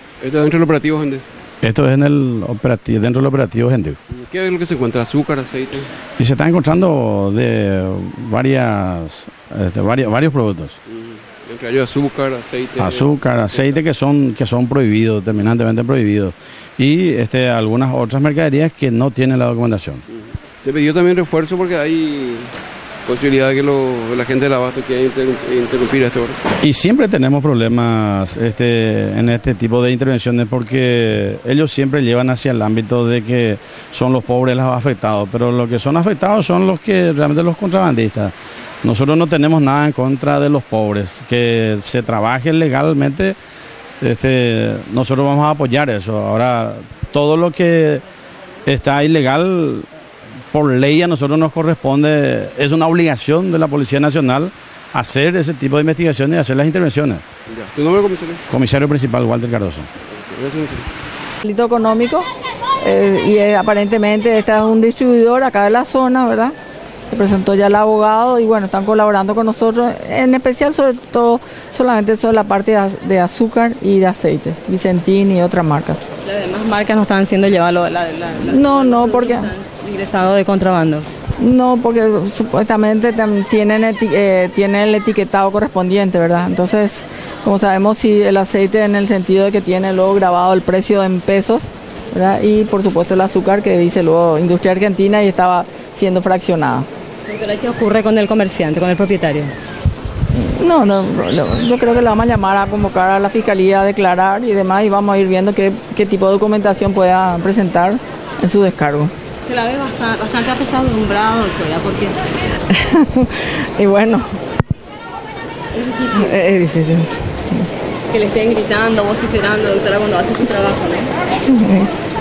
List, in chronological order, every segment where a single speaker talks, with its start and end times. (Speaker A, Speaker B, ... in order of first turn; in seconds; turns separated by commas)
Speaker A: 0.2-1.2, Speaker B: 1.6-4.0, Speaker A: 4.1-5.9, Speaker B: 6.2-10.8, Speaker A: 10.9-13.8, Speaker B: 12.8-20.0, Speaker A: 20.6-22.5, Speaker A: 23.1-26.4, Speaker B: 26.6-38.3, Speaker B: 38.8-43.4, Speaker B: 44.0-48.0, Speaker B: 48.7-49.9, Speaker B: 50.5-57.2, Speaker A: 57.5-58.4, Speaker B: 58.5-59.9, Speaker A: 60.2-60.9, Speaker C: 61.4-62.3, Speaker C: 62.8-66.5, Speaker C: 67.1-76.0, Speaker D: 76.2-81.1, Speaker C: 78.4-79.5, Speaker C: 81.4-96.9, Speaker D: 97.3-99.5, Speaker C: 100.3-109.1, Speaker D: 109.5-112.2, Speaker C: 112.7-114.4, Speaker D: 115.8-116.4, Speaker C: 116.1-117.7, Speaker D: 118.1-121.1, Speaker C: 121.5-121.9